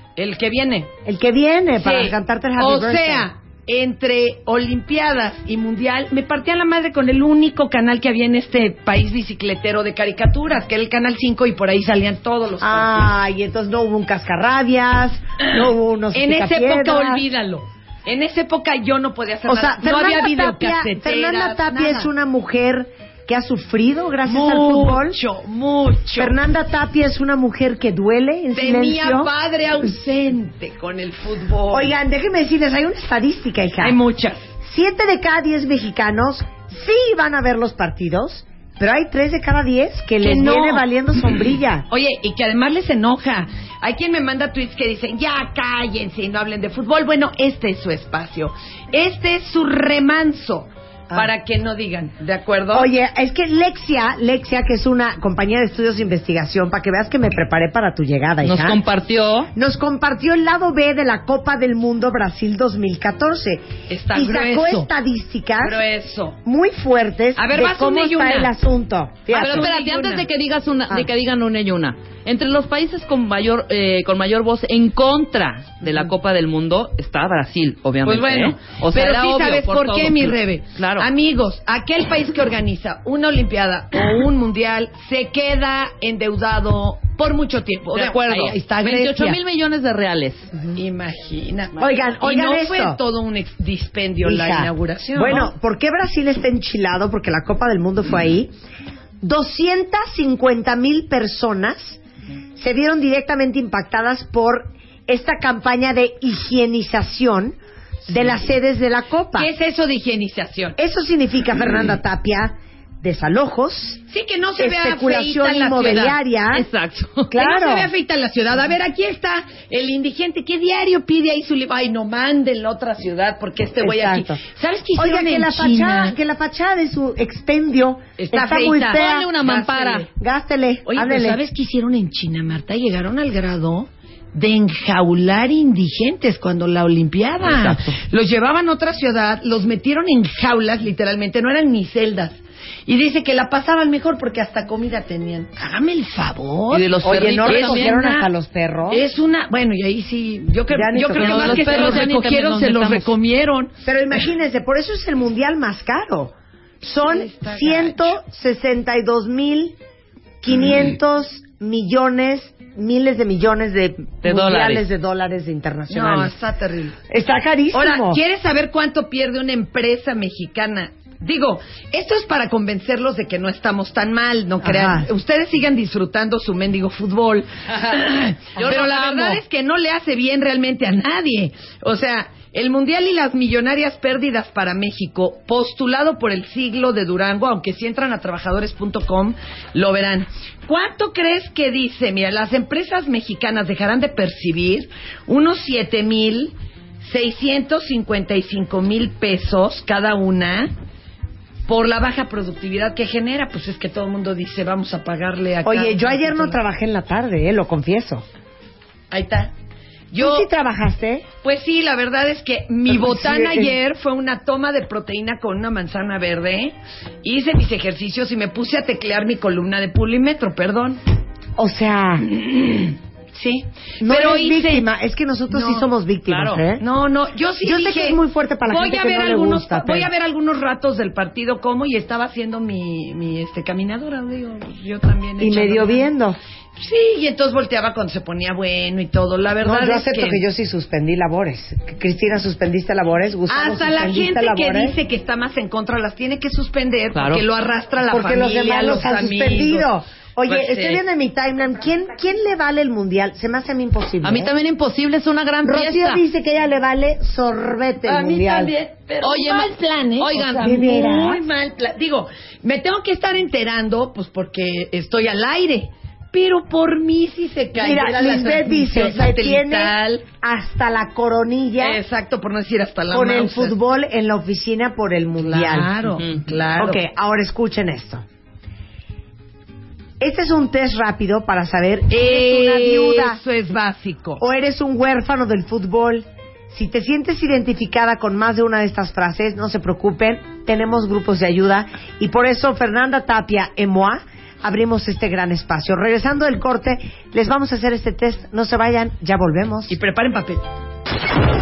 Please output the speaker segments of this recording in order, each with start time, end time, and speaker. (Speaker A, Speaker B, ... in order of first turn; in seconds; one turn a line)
Speaker A: 0.2-0.9
Speaker B: 1.1-3.3
Speaker A: 1.8-13.1
Speaker B: 12.6-17.2
Speaker A: 16.1-22.1
Speaker B: 19.5-25.2
Speaker A: 24.2-26.4
Speaker B: 26.2-29.3
Speaker A: 28.5-31.9
Speaker B: 31.7-34.0
Speaker A: 33.8-34.5
Speaker B: 34.6-41.9
Speaker A: 40.2-40.9
Speaker A: 41.9-52.9
Speaker B: 52.7-58.8
Speaker C: 58.4-59.5
Speaker B: 59.5-65.8
Speaker A: 63.9-64.9
Speaker A: 65.6-66.4
Speaker B: 66.4-69.7
Speaker A: 67.4-68.5
Speaker A: 69.3-70.2
Speaker C: 69.3-81.1
Speaker A: 78.0-89.4
Speaker C: 87.9-90.5
Speaker A: 90.7-95.5
Speaker B: 91.8-93.0
Speaker B: 94.2-98.5
Speaker B: 99.2-102.0
Speaker B: 102.6-109.5
Speaker A: 109.4-110.8
Speaker B: 110.8-114.0
Speaker A: 114.1-116.2
Speaker B: 114.6-116.7
Speaker C: 116.5-117.3
Speaker B: 117.3-117.9
Speaker A: 117.4-126.2
Speaker B: 123.8-124.4
Speaker B: 125.0-129.3
Speaker A: 128.2-130.1
Speaker C: 128.9-130.1
Speaker B: 130.2-131.4
Speaker A: 130.9-148.1
Speaker B: 137.5-137.8
Speaker C: 146.7-148.2
Speaker B: 147.0-149.0
Speaker A: 148.9-153.7
Speaker B: 150.7-152.1
Speaker C: 151.1-153.1
Speaker B: 153.8-159.8
Speaker A: 157.0-158.2
Speaker B: 160.4-166.3
Speaker C: 164.2-164.8
Speaker A: 165.9-167.0
Speaker B: 167.1-168.2
Speaker A: 167.7-200.7
Speaker B: 174.6-175.1
Speaker C: 178.6-179.4
Speaker A: 201.7-206.6
Speaker B: 205.6-208.2
Speaker A: 209.1-209.5
Speaker A: 210.1-210.5
Speaker B: 210.2-211.3
Speaker A: 211.4-221.0
Speaker B: 212.9-213.8
Speaker B: 221.6-222.3
Speaker A: 222.2-224.9
Speaker B: 224.0-226.8
Speaker A: 225.5-236.1
Speaker B: 227.6-230.1
Speaker B: 235.4-236.4
Speaker A: 236.8-240.4
Speaker B: 239.6-245.0
Speaker A: 243.5-249.9
Speaker C: 247.1-247.4
Speaker B: 248.1-254.5
Speaker A: 250.5-251.0
Speaker C: 254.2-256.2
Speaker B: 255.6-258.7
Speaker A: 258.1-270.3
Speaker C: 259.2-260.8
Speaker B: 260.6-261.4
Speaker B: 267.8-272.0
Speaker A: 271.8-273.8
Speaker B: 273.1-275.9
Speaker A: 275.4-277.0
Speaker B: 276.8-278.2
Speaker B: 280.2-283.4
Speaker A: 282.1-284.4
Speaker B: 284.4-299.9
Speaker A: 299.9-300.6